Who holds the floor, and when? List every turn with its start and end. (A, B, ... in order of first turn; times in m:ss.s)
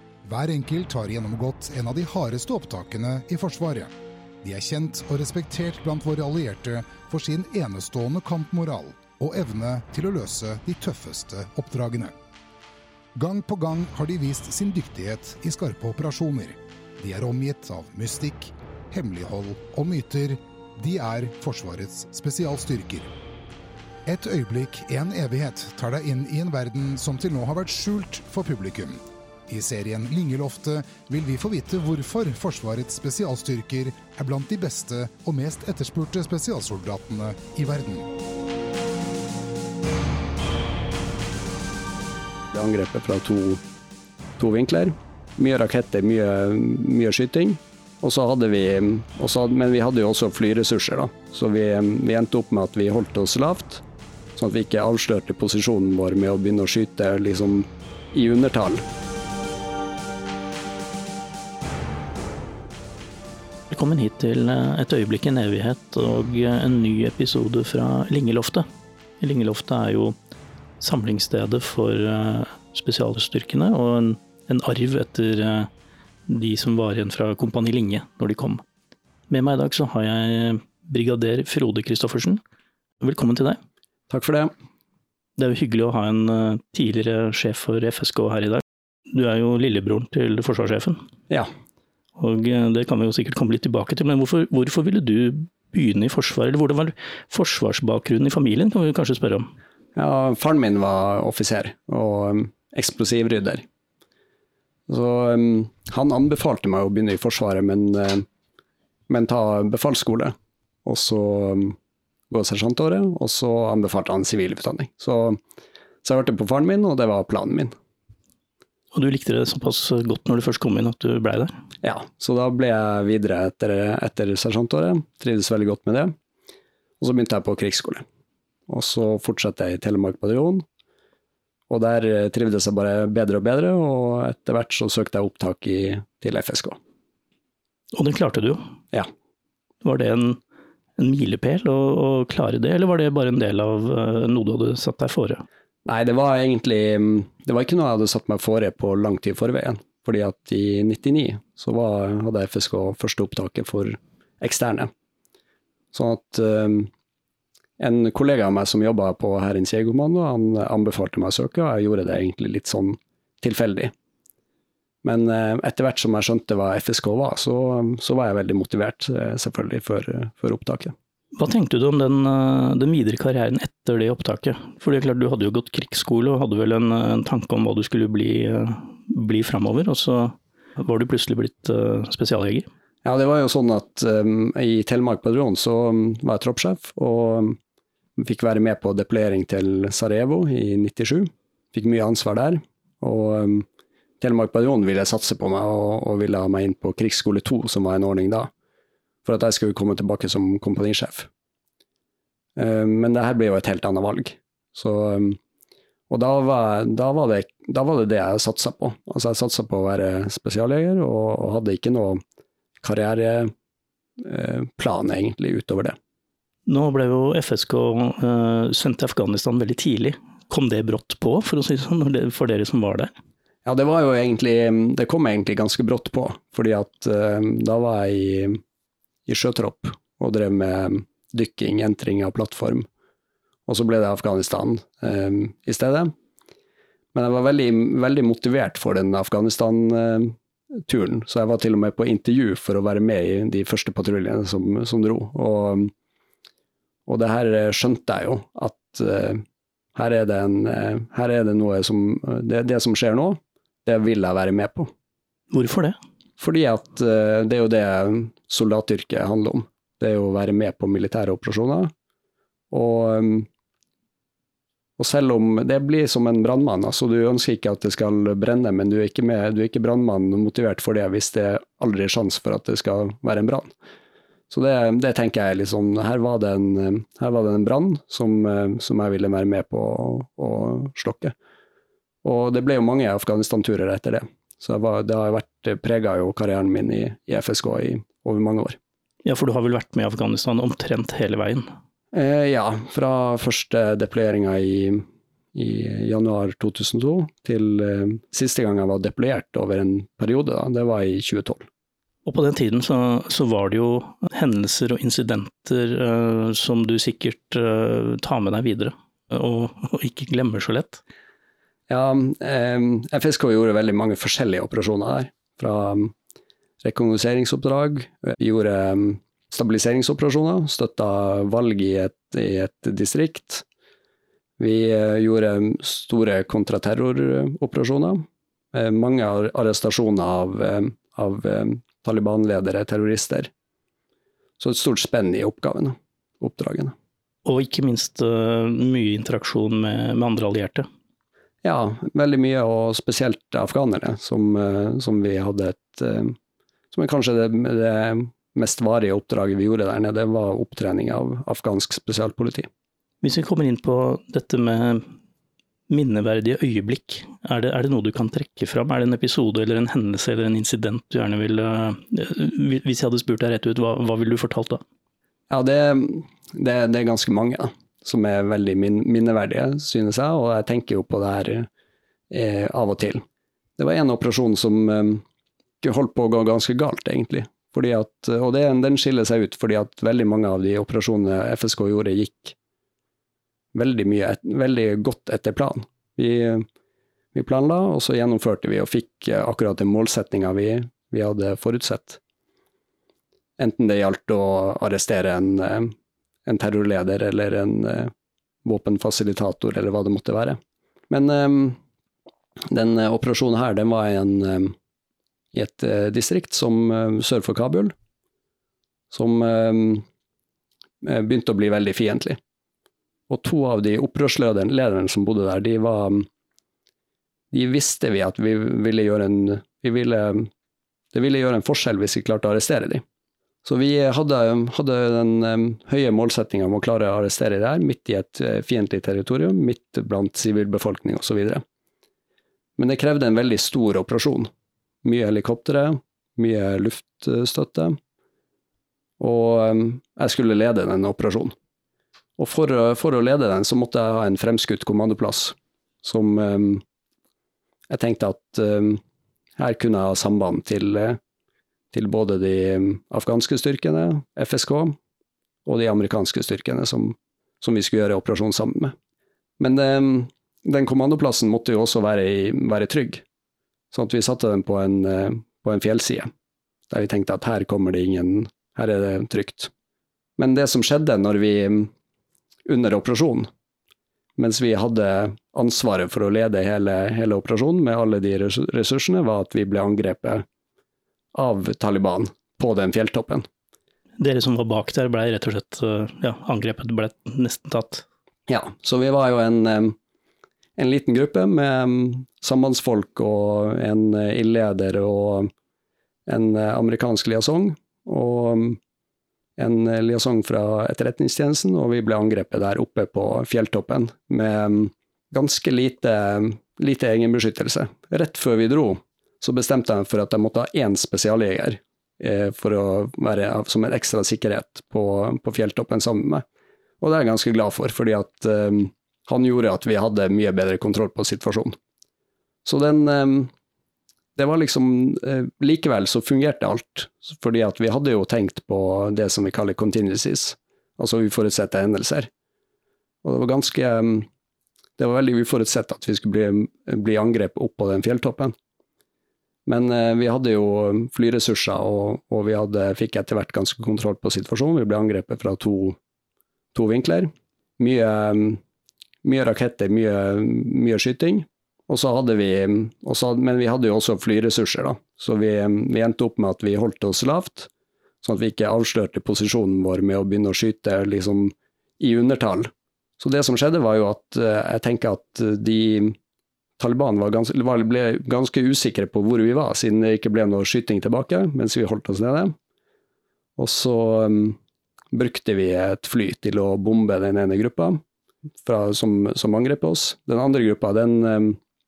0:00.2-0:12.1 A
0:13.1-0:23.1 A
0:24.0-0:38.1 A
0:42.5-0:43.6 B
0:44.4-0:53.8 B
0:54.4-0:58.8 B
1:03.7-1:08.6 C
1:09.2-1:10.2 C
1:10.8-1:15.7 C
1:16.3-1:18.6 C
1:19.3-1:22.4 C
1:23.0-1:23.6 C
1:24.1-1:24.5 B
1:25.4-1:31.0 C
1:32.2-1:39.5 C
1:40.0-1:43.6 B
1:44.9-1:48.2 B
1:49.1-1:50.3 B
1:50.8-1:51.8 B
1:52.3-1:55.4 B
1:56.0-1:57.7 B
1:58.9-2:01.5 C
2:01.8-2:06.1 B
2:07.0-2:08.0 B
2:08.7-2:10.6 B
2:11.7-2:16.8 B
2:17.9-2:18.6 C
2:19.8-2:20.4 C
2:21.0-2:25.4 C
2:25.8-2:34.9 B
2:35.9-2:36.9 B
2:37.8-2:43.9 B
2:45.0-2:50.9 B
2:51.3-3:02.7 C
3:03.0-3:07.6 B
3:08.2-3:13.6 B
3:14.2-3:18.5 B
3:19.2-3:21.3 B
3:22.6-3:25.4 B
3:26.1-3:32.2 B
3:32.8-3:33.5 B
3:34.2-3:36.0 B
3:36.6-3:43.1 C
3:43.6-3:48.6 B
3:49.3-3:52.8 B
3:53.7-3:56.1 B
3:57.1-4:05.9 B
4:07.1-4:09.4 B
4:09.9-4:14.9 B
4:15.5-4:16.0 C
4:16.4-4:21.9 B
4:22.7-4:23.5 B
4:25.0-4:33.7 B
4:34.5-4:41.3 B
4:42.2-4:48.8 B
4:49.2-4:51.7 C
4:52.1-5:01.6 B
5:02.2-5:11.0 C
5:11.9-5:16.1 B
5:16.8-5:23.6 B
5:24.6-5:33.5 B
5:34.6-5:36.9 B
5:37.4-5:40.9 C
5:41.6-5:46.3 B
5:46.9-5:52.7 B
5:53.2-5:55.1 C
5:55.9-6:04.8 C
6:05.5-6:11.7 B
6:12.3-6:13.2 B
6:13.8-6:15.2 B
6:15.8-6:22.5 B
6:23.7-6:26.6 B
6:27.3-6:32.2 B
6:33.6-6:35.9 B
6:36.4-6:38.1 B
6:38.6-6:40.6 B
6:41.1-6:41.8 B
6:42.7-6:44.7 B
6:45.5-6:47.9 B
6:49.1-6:50.0 B
6:51.0-6:52.4 B
6:53.3-6:56.3 B
6:57.5-7:00.5 B
7:01.1-7:03.0 B
7:03.6-7:11.6 B
7:12.8-7:14.5 B
7:15.0-7:18.0 B
7:19.2-7:21.5 B
7:22.4-7:26.8 B
7:27.9-7:29.0 B
7:29.6-7:31.2 B
7:31.9-7:35.0 B
7:35.6-7:38.9 B
7:39.6-7:43.2 B
7:43.9-7:46.3 B
7:46.9-7:49.7 B
7:50.4-7:51.9 B
7:52.7-7:53.5 B
7:54.4-8:00.4 B
8:01.3-8:03.4 B
8:04.2-8:08.0 C
8:08.5-8:10.0 B
8:10.8-8:15.5 B
8:16.3-8:18.8 B
8:19.6-8:36.4 B
8:37.0-8:41.8 B
8:42.6-8:43.5 B
8:44.4-8:52.3 B
8:53.2-8:54.3 B
8:55.0-8:58.5 B
8:59.6-9:06.0 B
9:06.7-9:08.6 B
9:09.2-9:17.7 B
9:18.2-9:26.2 B
9:26.8-9:32.5 B
9:33.6-9:34.6 B
9:35.1-9:38.0 B
9:38.6-9:41.6 B